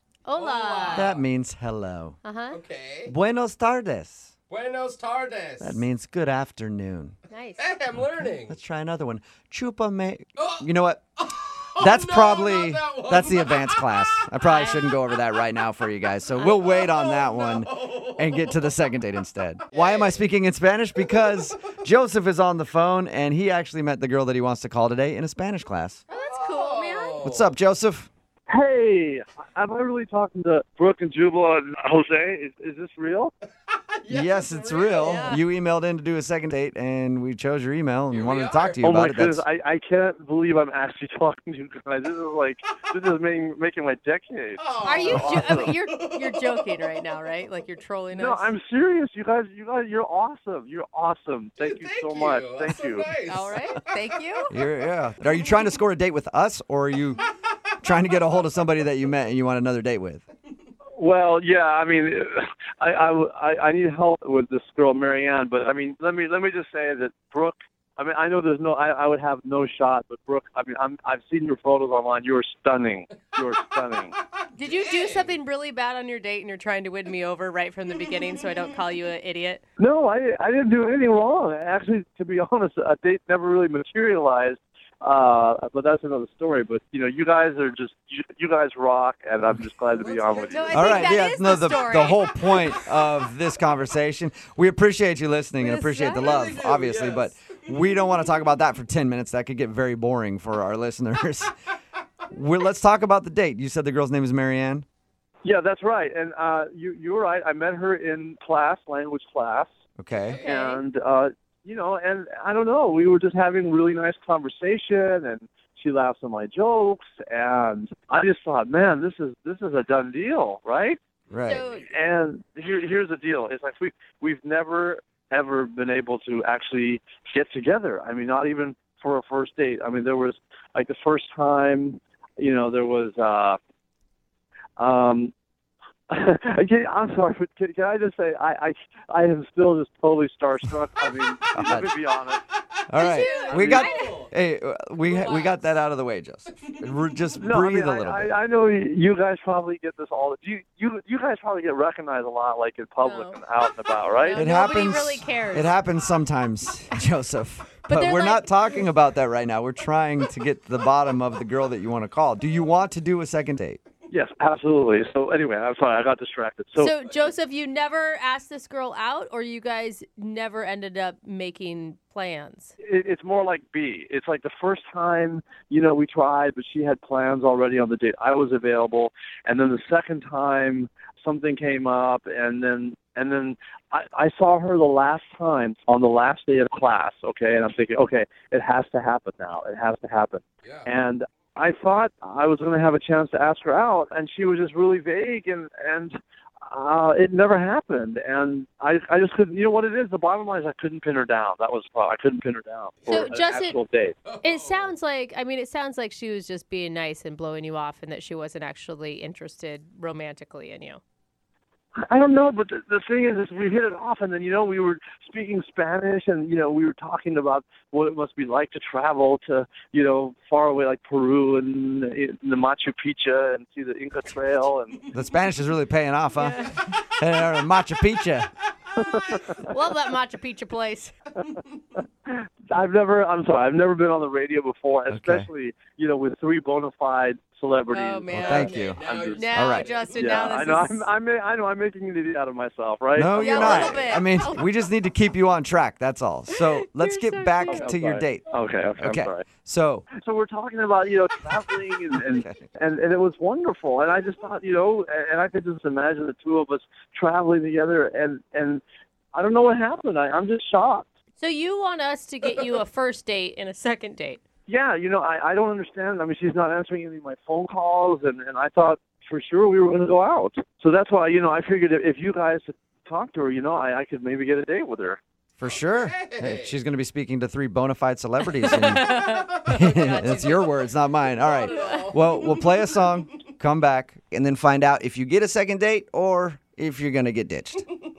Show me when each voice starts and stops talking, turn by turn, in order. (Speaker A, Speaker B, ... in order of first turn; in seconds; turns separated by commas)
Speaker A: 0.2-1.1, Speaker B: 0.4-1.2, Speaker C: 0.9-2.2, Speaker A: 2.2-2.6, Speaker B: 2.5-3.1, Speaker C: 3.1-4.3, Speaker B: 4.5-5.8, Speaker C: 5.6-7.1, Speaker A: 7.3-7.7, Speaker B: 7.6-8.6, Speaker C: 8.3-11.1, Speaker B: 10.4-10.7, Speaker B: 11.2-14.2, Speaker C: 11.8-26.0, Speaker A: 14.4-14.9, Speaker A: 16.3-16.6, Speaker B: 16.5-18.6, Speaker B: 19.7-20.2, Speaker A: 26.1-27.3, Speaker B: 26.1-27.5, Speaker C: 27.2-28.1, Speaker D: 28.5-33.3, Speaker B: 33.8-35.4, Speaker C: 34.1-39.4, Speaker A: 34.9-35.4, Speaker B: 38.1-38.8, Speaker D: 38.8-45.7, Speaker B: 44.6-47.0, Speaker A: 44.8-48.5, Speaker D: 48.1-53.1, Speaker B: 51.6-54.0, Speaker A: 53.3-54.5, Speaker C: 54.5-57.2, Speaker C: 57.8-60.2, Speaker D: 61.0-74.2, Speaker B: 74.4-75.4, Speaker A: 74.6-79.6, Speaker B: 78.1-78.6, Speaker D: 79.8-90.9, Speaker B: 90.0-91.2, Speaker A: 90.5-92.2, Speaker C: 90.7-101.5, Speaker A: 95.6-96.4, Speaker B: 96.2-97.8, Speaker C: 102.3-104.9, Speaker D: 105.4-109.7, Speaker C: 110.0-110.4, Speaker B: 110.1-110.5, Speaker A: 110.4-110.8, Speaker D: 110.4-121.0, Speaker C: 121.3-121.7, Speaker A: 121.5-121.9, Speaker D: 121.8-133.6, Speaker D: 134.8-135.3, Speaker D: 136.1-142.4, Speaker C: 141.5-141.9, Speaker C: 142.9-148.3, Speaker A: 143.0-144.2, Speaker B: 143.0-144.3, Speaker D: 143.5-143.9, Speaker B: 145.0-145.6, Speaker B: 146.5-146.9, Speaker D: 147.4-154.4, Speaker A: 153.0-153.4, Speaker A: 154.2-155.8, Speaker C: 154.3-163.8, Speaker A: 157.9-158.8, Speaker D: 164.1-166.9, Speaker A: 166.8-172.7, Speaker D: 172.8-196.2, Speaker D: 196.7-204.2, Speaker B: 203.0-203.6, Speaker A: 203.1-203.8, Speaker B: 204.2-204.9, Speaker A: 204.4-211.0, Speaker D: 212.0-225.1, Speaker C: 225.1-228.5, Speaker D: 229.0-229.7, Speaker A: 229.6-231.2, Speaker D: 232.3-244.1, Speaker C: 235.1-235.5, Speaker A: 237.9-241.1, Speaker C: 238.3-239.9, Speaker B: 238.5-240.4, Speaker C: 243.2-248.5, Speaker A: 243.3-244.7, Speaker A: 246.5-247.9, Speaker D: 247.7-249.5, Speaker C: 249.0-250.1, Speaker D: 250.1-258.8, Speaker C: 252.3-252.7, Speaker D: 259.3-261.1, Speaker A: 261.4-264.4, Speaker D: 264.7-275.2, Speaker C: 275.6-279.1, Speaker B: 275.7-276.8, Speaker A: 278.6-280.3, Speaker B: 279.3-283.2, Speaker C: 279.7-287.8